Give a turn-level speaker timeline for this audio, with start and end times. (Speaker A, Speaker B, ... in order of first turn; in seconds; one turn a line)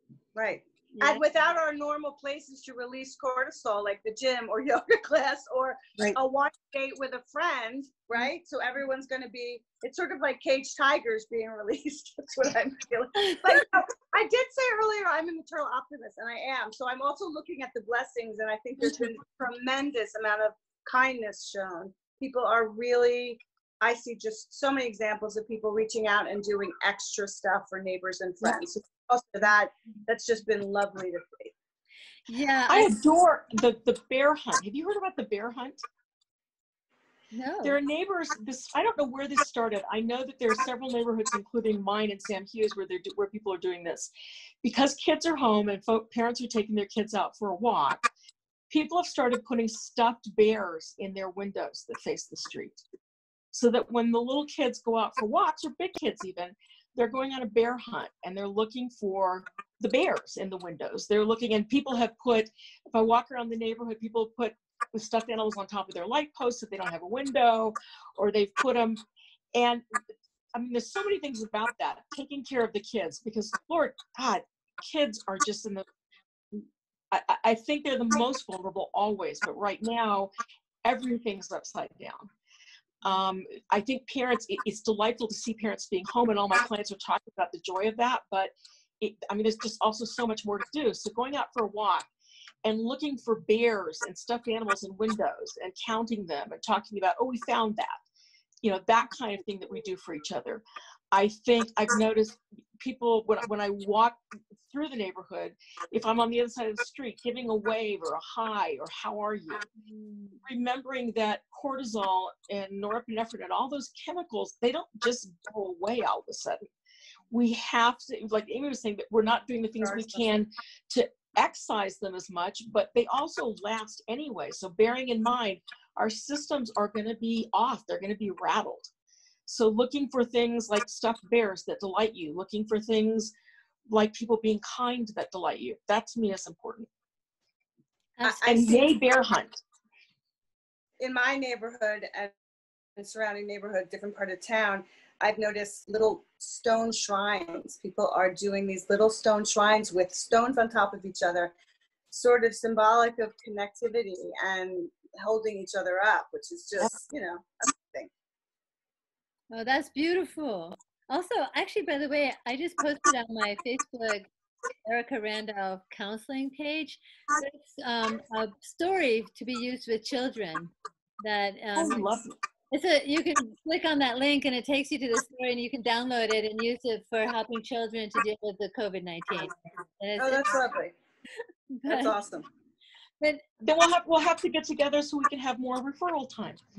Speaker A: 0.3-31.5
Speaker B: 0.9-1.2
Speaker B: 13.3-13.6
Speaker B: 32.3-33.0
Speaker C: 32.7-35.8
Speaker B: 37.3-37.8
Speaker C: 37.6-44.1
Speaker C: 44.6-48.0
Speaker C: 48.7-52.8
Speaker C: 53.5-69.0
Speaker C: 69.5-69.8
Speaker C: 70.5-75.8
Speaker C: 76.5-80.3
Speaker C: 80.8-82.3
Speaker C: 83.0-92.1
Speaker C: 92.6-98.0
Speaker C: 98.6-109.7
Speaker B: 109.8-110.4
Speaker C: 110.4-116.6
Speaker C: 117.3-128.9
Speaker A: 119.8-120.2
Speaker C: 129.5-133.3
Speaker C: 133.9-136.9
Speaker B: 138.2-138.6
Speaker A: 138.2-138.8
Speaker C: 138.4-139.6
Speaker A: 141.0-142.3
Speaker A: 142.9-151.5
Speaker A: 152.1-158.1
Speaker B: 159.5-164.3
Speaker B: 164.8-172.1
Speaker C: 171.7-172.3
Speaker B: 172.7-180.6
Speaker A: 180.2-180.9
Speaker B: 181.7-182.2
Speaker A: 181.8-182.4
Speaker C: 183.6-186.6